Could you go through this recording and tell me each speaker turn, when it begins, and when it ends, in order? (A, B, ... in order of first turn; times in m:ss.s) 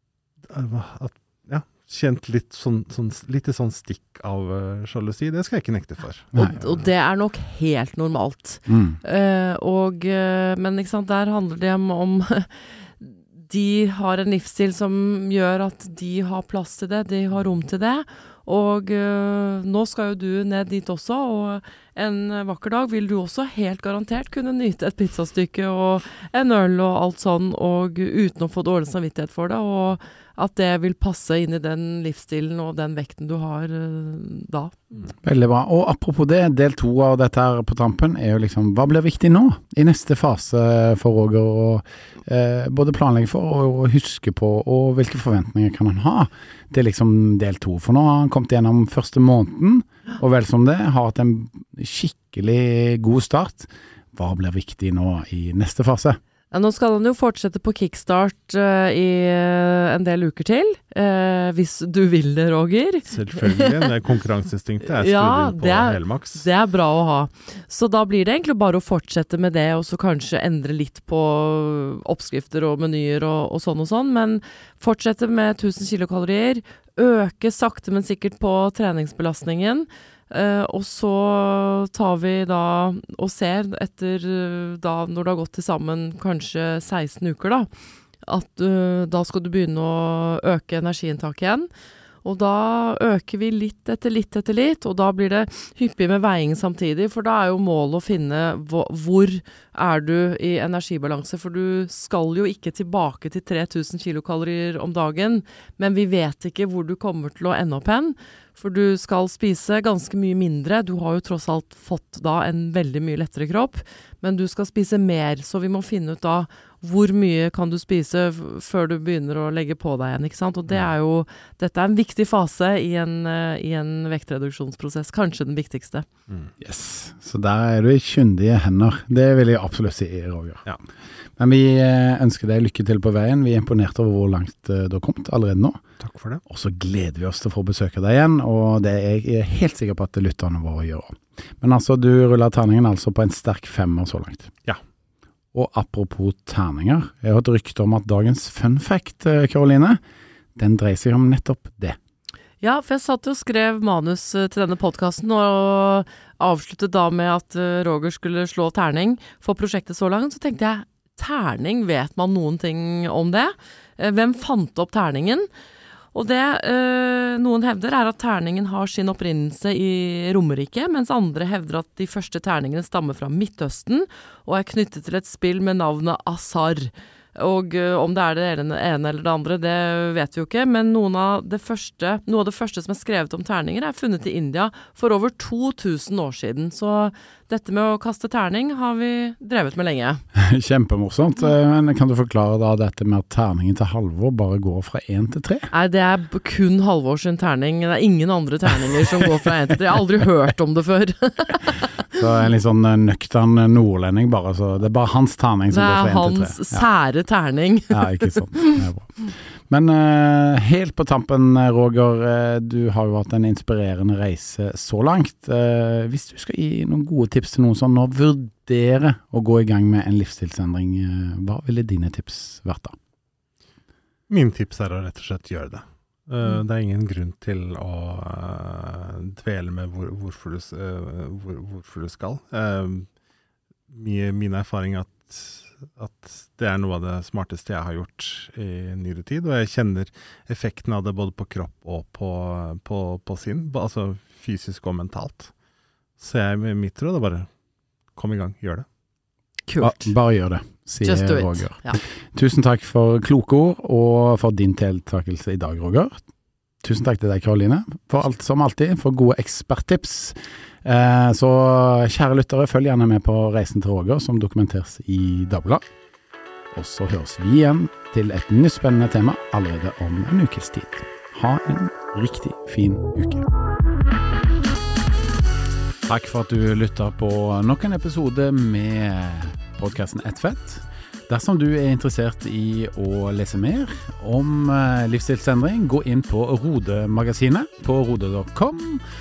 0:00.5-0:06.7 A
0:06.4-0:35.1 B
0:08.7-0:09.0 C
0:35.2-0:56.2 C
0:56.5-1:03.9 B
1:03.1-1:06.5 A
1:05.0-1:27.7 B
1:28.2-1:31.7 B
1:32.2-2:06.1 B
2:06.6-2:10.7 C
2:11.4-2:15.8 C
2:16.0-2:16.4 A
2:16.5-2:24.5 C
2:25.5-2:30.0 C
2:30.6-2:32.0 C
2:32.6-2:45.5 B
2:46.1-3:10.2 B
3:10.4-3:15.7 C
3:15.7-3:22.2 B
3:22.2-3:26.9 C
3:25.7-3:28.8 B
3:27.9-3:43.0 C
3:44.3-3:53.1 A
3:53.9-4:05.5 A
4:06.2-4:07.5 A
4:08.2-4:08.9 A
4:09.7-4:10.2 B
4:09.8-4:16.2 C
4:11.0-4:12.0 B
4:16.8-4:25.8 C
4:26.7-4:33.5 C
4:36.1-4:49.0 C